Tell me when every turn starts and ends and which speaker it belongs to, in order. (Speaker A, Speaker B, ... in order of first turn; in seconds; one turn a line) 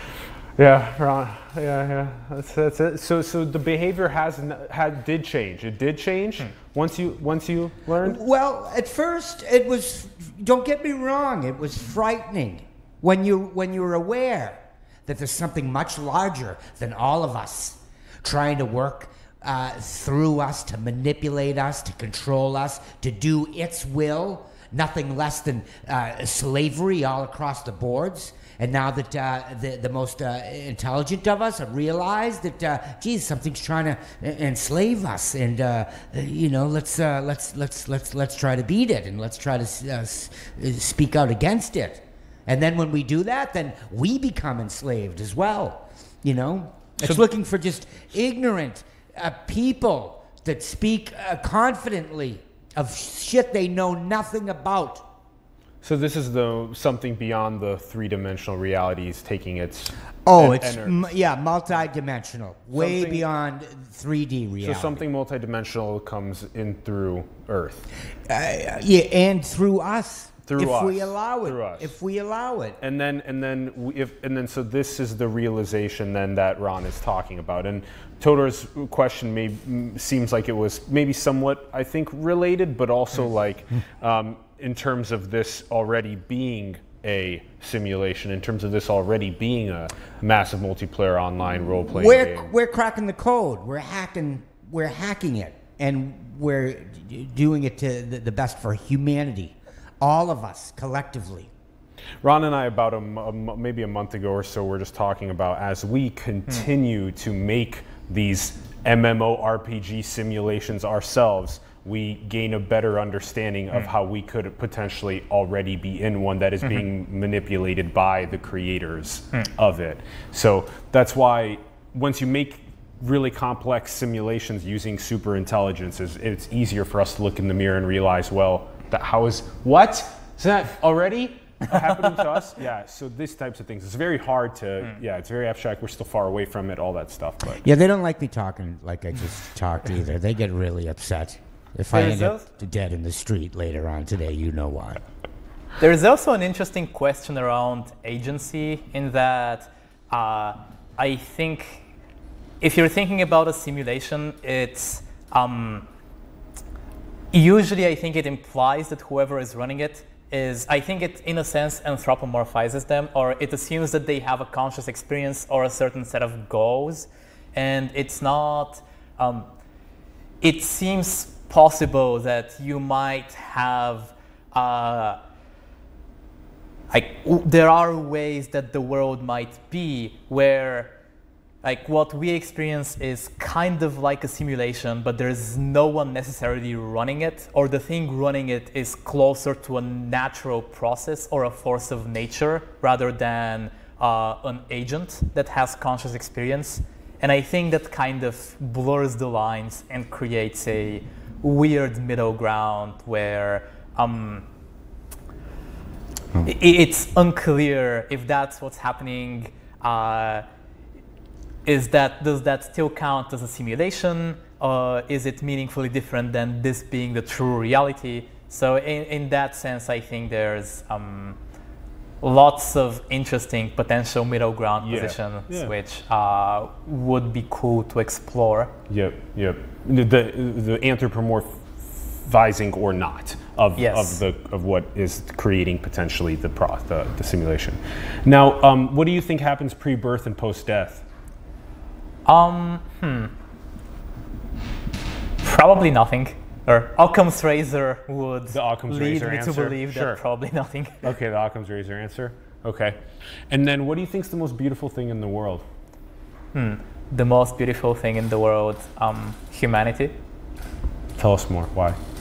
Speaker A: 0.6-8.2
Speaker B: 8.0-55.1
Speaker A: 55.8-61.0
Speaker B: 60.2-65.0
Speaker A: 62.7-63.2
Speaker A: 64.6-67.9
Speaker B: 68.3-72.8
Speaker A: 70.5-72.0
Speaker A: 72.8-92.5
Speaker B: 91.9-101.5
Speaker A: 102.2-137.6
Speaker B: 137.6-145.0
Speaker C: 141.9-142.5
Speaker C: 145.8-151.8
Speaker C: 152.6-155.9
Speaker C: 157.3-169.5
Speaker C: 170.4-175.2
Speaker C: 176.9-180.9
Speaker C: 181.6-204.4
Speaker C: 206.4-210.4
Speaker C: 211.6-221.4
Speaker C: 222.2-228.7
Speaker A: 224.8-225.7
Speaker A: 228.9-241.0
Speaker C: 233.8-234.2
Speaker C: 242.2-243.3
Speaker C: 245.4-251.1
Speaker A: 248.5-250.2
Speaker A: 251.0-255.7
Speaker C: 256.5-260.1
Speaker A: 261.1-262.0